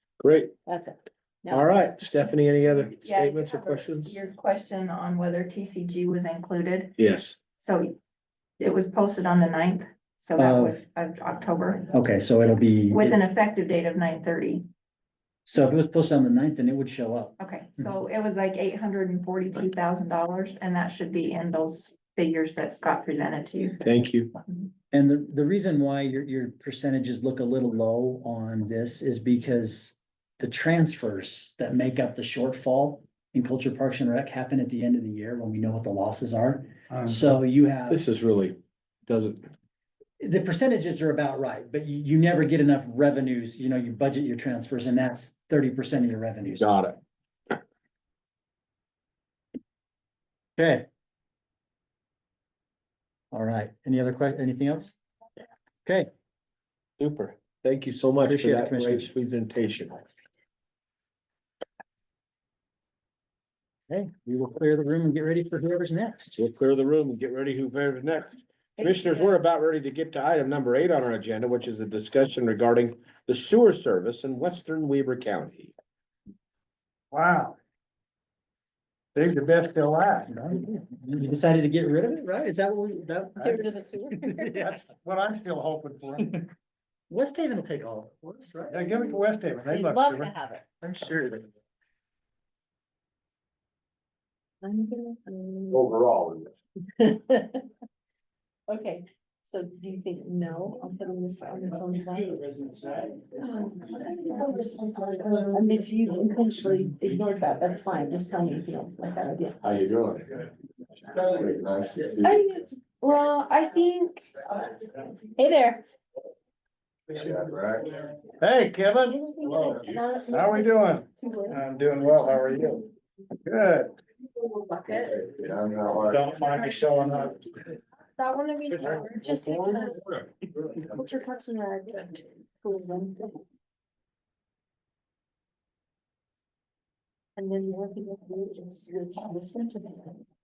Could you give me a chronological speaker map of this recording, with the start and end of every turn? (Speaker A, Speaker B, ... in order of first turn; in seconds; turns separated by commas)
Speaker A: 0.2-0.5, Speaker B: 0.7-1.9, Speaker A: 1.5-4.2, Speaker C: 3.0-7.0, Speaker A: 7.0-7.4, Speaker C: 7.6-8.0, Speaker C: 8.6-11.9, Speaker D: 10.4-10.8, Speaker D: 11.9-13.2, Speaker C: 12.9-14.7, Speaker D: 15.5-17.9, Speaker C: 17.4-23.8, Speaker A: 23.8-24.3, Speaker D: 24.9-38.0, Speaker A: 37.9-39.5, Speaker D: 40.2-46.8, Speaker A: 46.6-47.0, Speaker D: 50.6-50.9, Speaker D: 53.3-55.0, Speaker A: 57.0-60.0, Speaker D: 58.2-59.1, Speaker D: 63.9-66.4, Speaker A: 66.4-75.7, Speaker B: 68.8-69.4, Speaker E: 77.1-77.6, Speaker E: 79.2-80.3, Speaker D: 80.3-83.7, Speaker B: 83.4-84.8, Speaker D: 84.3-84.7, Speaker E: 84.6-86.4, Speaker D: 87.1-88.8, Speaker E: 88.7-90.3, Speaker B: 89.7-90.7, Speaker B: 94.6-95.9, Speaker A: 95.7-96.5, Speaker B: 97.0-97.7, Speaker B: 98.7-109.6, Speaker A: 109.6-110.5, Speaker A: 111.1-112.3, Speaker B: 112.2-114.3, Speaker B: 115.2-115.8, Speaker E: 117.1-117.4, Speaker A: 117.3-117.9, Speaker E: 118.4-119.2, Speaker B: 119.0-121.6, Speaker E: 120.3-122.8, Speaker E: 123.5-123.9, Speaker B: 124.6-125.2, Speaker A: 125.4-126.2, Speaker E: 126.1-127.3, Speaker B: 126.8-127.1, Speaker B: 128.2-130.0, Speaker A: 129.3-130.0, Speaker B: 130.7-133.4, Speaker B: 137.4-140.2